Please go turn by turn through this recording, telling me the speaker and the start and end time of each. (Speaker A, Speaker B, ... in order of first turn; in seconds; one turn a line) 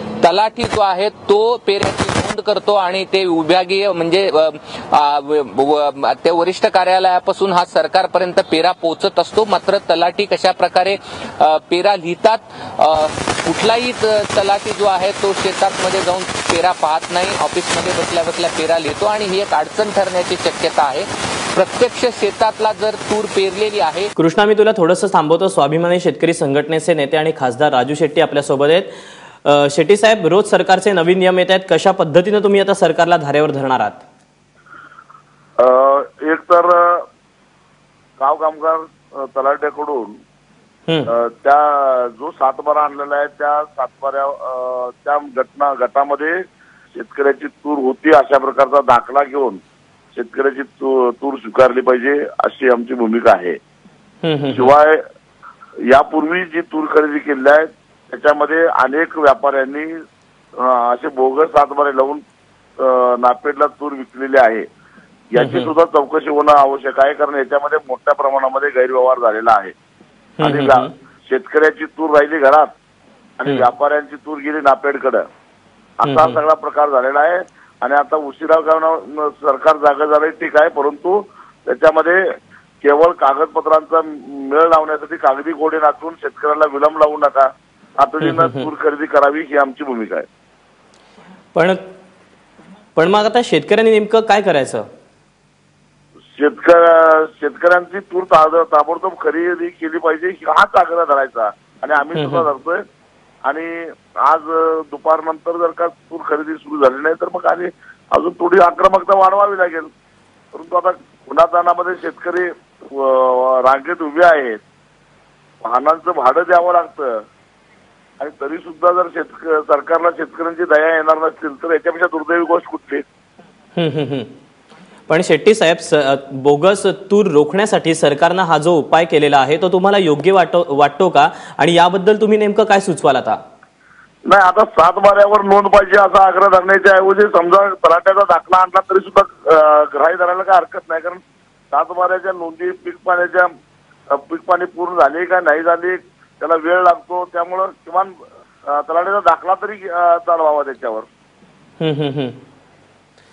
Speaker A: 0.2-24.1
Speaker B: 24.2-28.9
Speaker B: 29.4-34.0
Speaker C: 35.6-37.0
Speaker C: 38.2-40.1
Speaker C: 41.1-46.4
Speaker C: 46.9-49.6
Speaker C: 50.1-53.6
Speaker B: 54.2-54.7
Speaker C: 54.5-55.0
Speaker C: 55.9-59.9
Speaker C: 60.6-62.2
Speaker C: 62.8-64.7
Speaker C: 65.3-69.7
Speaker B: 65.4-65.7
Speaker B: 70.4-70.9
Speaker C: 70.4-72.7
Speaker C: 73.4-75.2
Speaker C: 76.0-82.2
Speaker B: 76.0-76.4
Speaker C: 82.8-90.3
Speaker B: 88.2-88.7
Speaker B: 91.5-91.8
Speaker B: 93.0-94.9
Speaker C: 96.3-102.8
Speaker B: 102.2-102.5
Speaker C: 103.5-109.9
Speaker C: 110.5-114.6
Speaker C: 115.6-117.2
Speaker C: 118.2-123.0
Speaker B: 123.8-124.3
Speaker B: 125.1-133.4
Speaker C: 134.3-141.2
Speaker C: 141.7-143.5
Speaker C: 144.1-148.1
Speaker C: 148.7-151.1
Speaker B: 151.8-152.4